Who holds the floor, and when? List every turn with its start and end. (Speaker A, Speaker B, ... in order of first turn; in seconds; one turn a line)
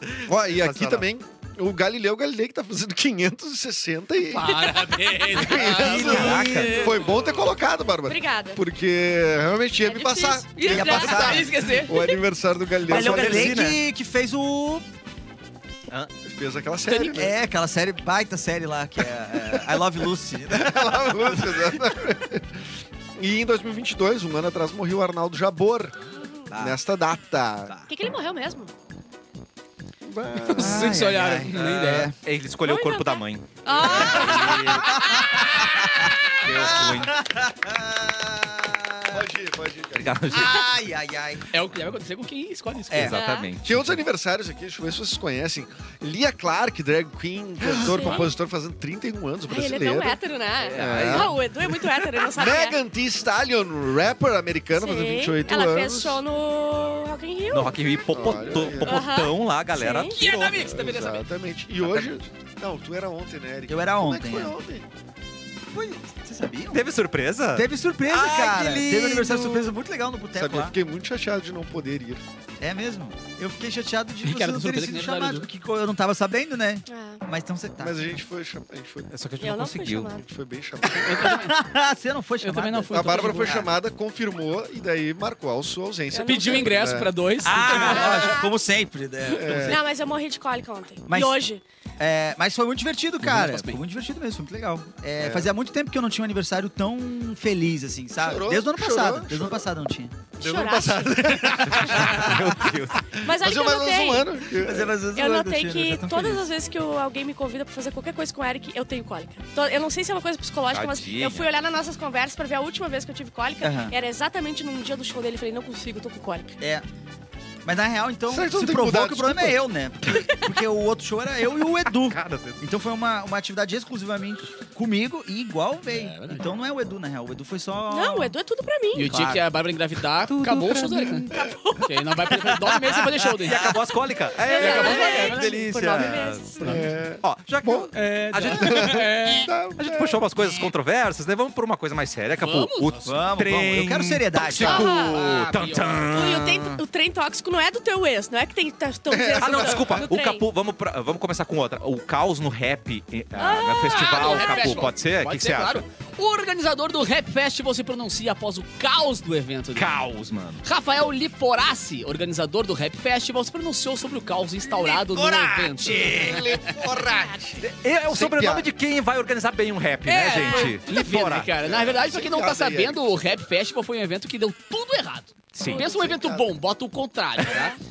Speaker A: 0.2-4.6
Speaker B: 0.5-1.1
Speaker C: 4.3-7.3
Speaker D: 4.6-5.4
Speaker A: 5.3-13.6
Speaker E: 5.6-7.0
Speaker B: 5.7-6.8
Speaker D: 8.1-8.6
Speaker D: 9.8-12.2
Speaker E: 10.6-11.5
Speaker C: 11.0-12.0
Speaker B: 12.8-13.8
Speaker E: 12.8-14.8
Speaker A: 16.2-17.3
Speaker E: 17.0-21.7
Speaker A: 20.5-22.6
Speaker A: 23.2-26.0
Speaker D: 26.2-26.5
Speaker E: 26.5-26.8
Speaker A: 26.5-27.8
Speaker D: 27.9-28.7
Speaker A: 30.0-31.0
Speaker C: 30.4-32.1
Speaker E: 30.5-32.1
Speaker B: 31.5-35.2
Speaker D: 32.6-35.8
Speaker E: 33.9-39.3
Speaker B: 36.2-37.2
Speaker A: 39.1-40.4
Speaker B: 40.0-40.6
Speaker E: 40.3-41.5
Speaker C: 41.5-43.2
Speaker E: 42.9-43.1
Speaker B: 42.9-44.0
Speaker D: 43.1-43.5
Speaker A: 43.6-50.2
Speaker D: 47.8-48.3
Speaker D: 49.5-52.8
Speaker B: 50.6-51.4
Speaker A: 50.7-51.4
Speaker A: 52.3-56.2
Speaker D: 54.8-57.8
Speaker B: 57.5-60.6
Speaker A: 58.1-59.0
Speaker D: 58.8-60.2
Speaker C: 60.1-61.2
Speaker A: 60.5-64.9
Speaker B: 61.8-62.1
Speaker E: 63.7-64.5
Speaker E: 65.7-66.8
Speaker B: 66.7-69.7
Speaker E: 67.5-70.8
Speaker A: 70.3-72.2
Speaker E: 72.6-78.0
Speaker C: 74.2-75.5
Speaker D: 76.9-77.2
Speaker A: 77.8-79.1
Speaker B: 79.1-80.2
Speaker D: 79.4-80.2
Speaker A: 80.2-81.5
Speaker E: 80.9-83.7
Speaker C: 81.0-81.5
Speaker C: 82.4-83.6
Speaker A: 82.9-87.1
Speaker D: 86.1-86.8
Speaker C: 86.2-88.4
Speaker E: 87.4-89.8
Speaker D: 87.6-88.5
Speaker A: 89.3-89.8
Speaker D: 89.7-91.6
Speaker E: 91.1-91.4
Speaker E: 92.0-100.2
Speaker C: 93.2-93.8
Speaker A: 95.2-95.5
Speaker A: 98.2-99.6
Speaker D: 100.4-101.1
Speaker A: 100.4-105.0
Speaker B: 101.6-103.1
Speaker E: 101.9-102.5
Speaker D: 103.2-104.3
Speaker E: 104.5-106.5
Speaker D: 105.1-116.6
Speaker B: 110.7-111.5
Speaker E: 113.6-113.9
Speaker E: 117.6-128.4
Speaker A: 118.3-119.6
Speaker B: 121.9-122.6
Speaker C: 125.9-126.5
Speaker D: 127.9-129.1
Speaker C: 128.9-133.7
Speaker E: 129.0-129.4
Speaker B: 130.3-131.3
Speaker D: 131.3-132.6
Speaker B: 133.4-139.0
Speaker D: 134.4-136.7
Speaker C: 134.5-135.5
Speaker C: 136.6-136.9
Speaker A: 136.6-137.9
Speaker C: 137.9-139.5
Speaker A: 138.4-140.2
Speaker B: 139.8-146.8
Speaker C: 142.4-143.2
Speaker E: 143.1-144.9
Speaker D: 144.6-145.2
Speaker C: 144.7-146.2
Speaker D: 146.1-150.4
Speaker A: 149.1-150.1
Speaker B: 149.4-155.8
Speaker D: 153.4-154.8
Speaker C: 153.8-160.0
Speaker B: 159.8-160.6
Speaker C: 160.6-166.4
Speaker E: 164.7-166.5
Speaker A: 165.9-168.7
Speaker B: 167.6-171.5
Speaker C: 170.1-177.8
Speaker D: 170.3-170.8
Speaker A: 171.6-173.2
Speaker B: 175.5-175.8
Speaker D: 175.6-175.9
Speaker A: 175.7-176.5
Speaker D: 177.4-177.8